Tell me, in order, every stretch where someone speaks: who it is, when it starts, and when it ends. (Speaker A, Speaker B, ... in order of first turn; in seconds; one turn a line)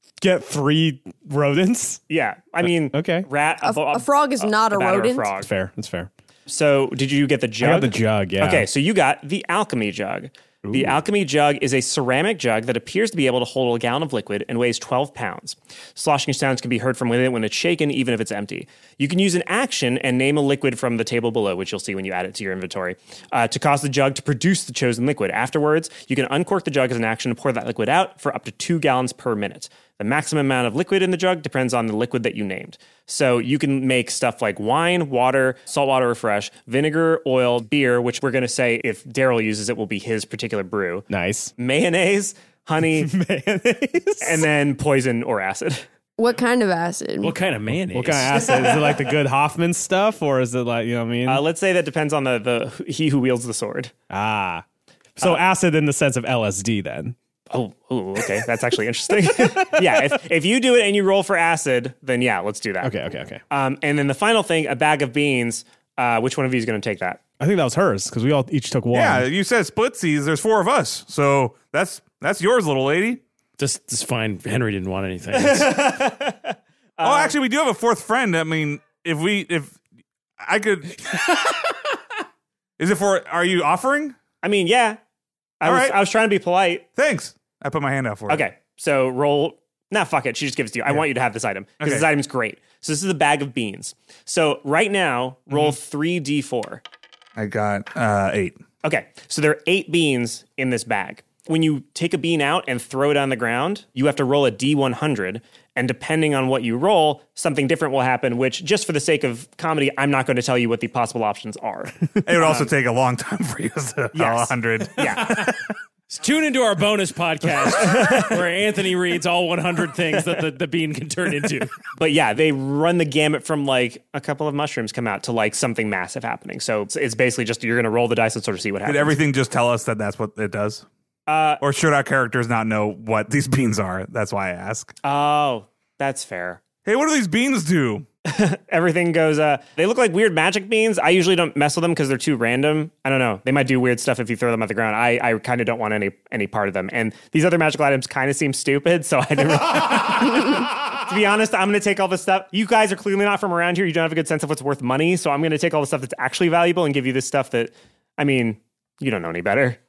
Speaker A: 0.2-2.0
Speaker B: 2.1-5.5
Speaker A: 2.9-3.3
Speaker C: 3.6-5.3
Speaker A: 5.4-6.1
Speaker B: 6.5-43.1
Speaker A: 7.6-8.7
Speaker A: 10.7-10.9
Speaker A: 41.1-41.5
Speaker A: 43.0-44.5
Speaker B: 44.2-45.9
Speaker C: 46.2-47.4
Speaker D: 47.2-48.6
Speaker A: 47.9-51.4
Speaker C: 48.7-48.9
Speaker B: 51.3-53.9
Speaker A: 54.1-54.6
Speaker A: 55.2-57.2
Speaker B: 57.5-63.0
Speaker A: 62.8-63.4
Speaker B: 63.5-67.2
Speaker A: 67.4-69.3
Speaker E: 68.9-73.2
Speaker D: 73.6-75.9
Speaker B: 75.3-77.4
Speaker E: 77.0-79.8
Speaker E: 80.4-81.7
Speaker E: 82.8-84.2
Speaker B: 84.4-85.0
Speaker B: 85.6-86.9
Speaker E: 85.7-86.0
Speaker E: 87.0-88.4
Speaker B: 88.3-96.8
Speaker E: 91.8-92.1
Speaker E: 97.4-98.6
Speaker B: 98.8-112.7
Speaker E: 112.2-115.4
Speaker B: 114.1-115.5
Speaker D: 115.2-115.5
Speaker D: 116.1-121.7
Speaker B: 117.8-118.3
Speaker B: 122.0-129.2
Speaker E: 128.8-130.9
Speaker B: 131.3-131.6
Speaker E: 131.6-134.9
Speaker B: 135.0-136.6
Speaker E: 136.8-138.1
Speaker B: 138.3-159.8